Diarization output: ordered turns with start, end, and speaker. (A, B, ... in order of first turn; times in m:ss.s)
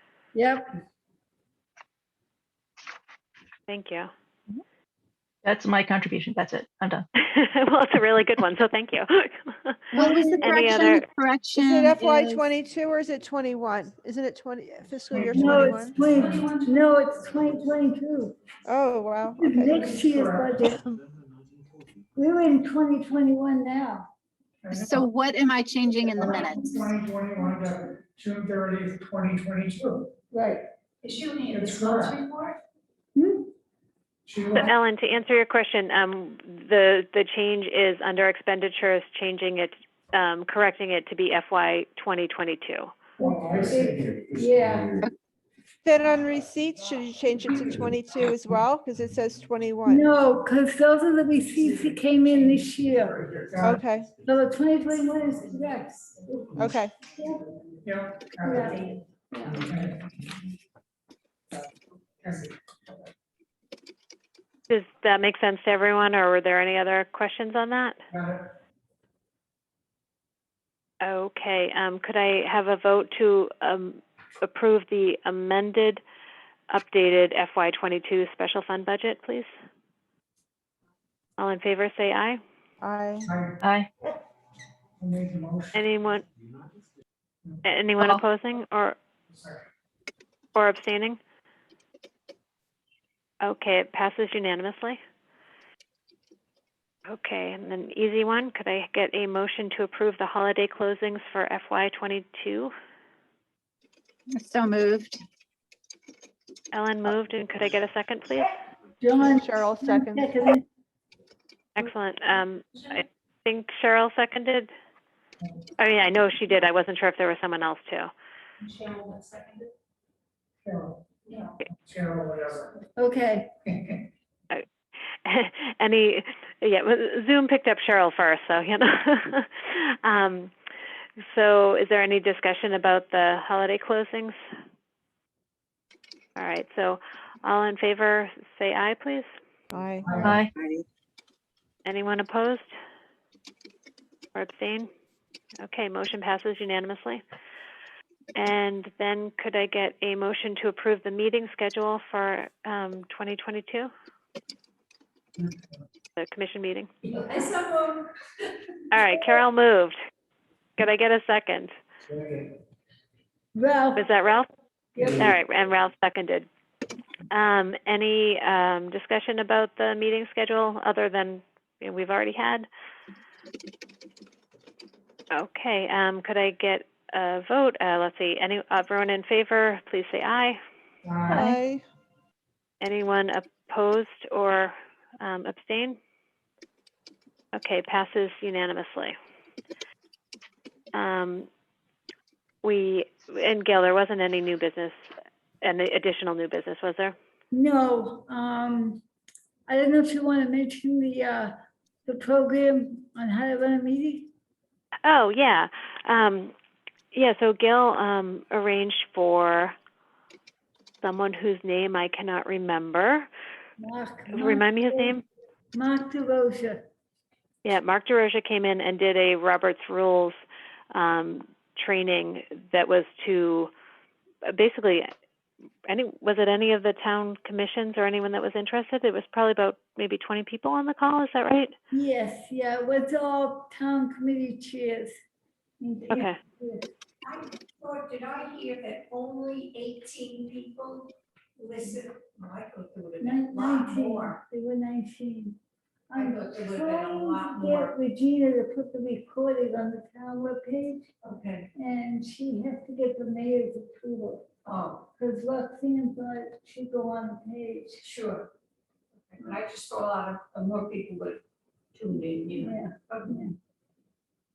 0:00.3-0:00.7 A
0:03.7-0:04.1 B
0:05.4-0:07.1 C
0:07.2-0:11.1 B
0:09.9-0:12.4 D
0:11.6-0:16.0 E
0:15.1-0:16.4 F
0:15.3-0:18.4 A
0:16.2-0:16.8 G
0:18.7-0:19.8 E
0:19.4-0:20.8 A
0:19.7-0:20.6 F
0:22.2-0:24.1 A
0:24.6-0:25.1 F
0:24.7-0:26.9 D
0:26.1-0:30.1 F
0:30.3-0:30.6 A
0:31.0-0:32.6 G
0:31.5-0:32.2 F
0:33.2-0:33.5 A
0:34.3-0:34.7 F
0:34.5-0:42.9 B
0:43.2-0:44.2 F
0:43.2-0:44.9 A
0:45.8-0:50.1 E
0:49.8-0:53.2 A
0:53.3-0:53.8 F
0:53.6-0:54.1 E
0:54.2-0:57.5 A
0:54.9-0:56.2 G
0:56.6-0:56.9 E
0:57.8-0:58.8 F
0:58.4-0:59.7 A
0:59.5-1:00.1 F
1:02.2-1:02.5 F
1:04.7-1:08.0 B
1:08.1-1:08.5 F
1:11.0-1:16.0 B
1:16.7-1:19.5 B
1:21.4-1:22.4 B
1:22.8-1:23.3 E
1:23.2-1:23.5 F
1:23.6-1:23.9 C
1:25.0-1:25.8 F
1:25.7-1:26.3 B
1:27.6-1:29.0 B
1:29.3-1:29.6 F
1:30.6-1:31.2 B
1:33.4-1:35.0 B
1:37.1-1:42.7 B
1:44.3-1:45.2 D
1:46.7-1:48.6 B
1:49.0-1:50.6 A
1:49.2-1:50.3 E
1:51.8-1:54.7 B
1:55.8-1:58.1 B
1:58.6-1:59.7 G
2:00.6-2:01.1 F
2:01.3-2:01.6 G
2:01.7-2:02.7 F
2:03.0-2:03.5 A
2:03.7-2:04.0 F
2:05.2-2:10.5 B
2:11.2-2:14.4 B
2:16.4-2:19.3 B
2:19.7-2:20.3 E
2:20.0-2:20.4 F
2:20.2-2:20.5 C
2:20.5-2:20.8 D
2:21.8-2:22.7 B
2:24.4-2:24.9 B
2:25.6-2:27.2 B
2:28.4-2:33.9 B
2:36.2-2:36.9 B
2:37.0-2:38.4 G
2:38.9-2:40.0 B
2:40.8-2:41.7 B
2:42.1-2:42.4 F
2:43.6-2:44.1 A
2:44.0-2:46.5 B
2:45.0-2:45.3 A
2:47.3-2:52.7 B
2:55.3-3:00.6 B
3:01.0-3:01.6 F
3:01.3-3:01.8 E
3:02.8-3:06.0 B
3:07.5-3:09.2 B
3:10.9-3:11.5 B
3:12.6-3:15.0 B
3:15.6-3:17.2 B
3:17.5-3:19.0 A
3:19.7-3:24.3 A
3:25.1-3:26.5 B
3:27.1-3:29.8 B
3:31.0-3:33.3 B
3:33.8-3:35.2 A
3:34.3-3:35.2 B
3:35.7-3:36.8 A
3:37.6-3:40.4 B
3:40.9-3:43.7 B
3:44.5-3:45.1 B
3:45.9-3:51.7 B
3:51.9-3:55.2 A
3:55.8-3:56.9 A
3:56.1-3:56.4 B
3:57.2-4:04.4 G
4:03.2-4:05.6 A
4:06.1-4:11.1 A
4:06.1-4:07.9 G
4:11.2-4:11.7 G
4:11.8-4:14.5 A
4:14.6-4:15.1 G
4:15.2-4:18.1 A
4:18.0-4:18.5 G
4:19.3-4:21.4 G
4:21.9-4:23.5 G
4:22.6-4:23.5 A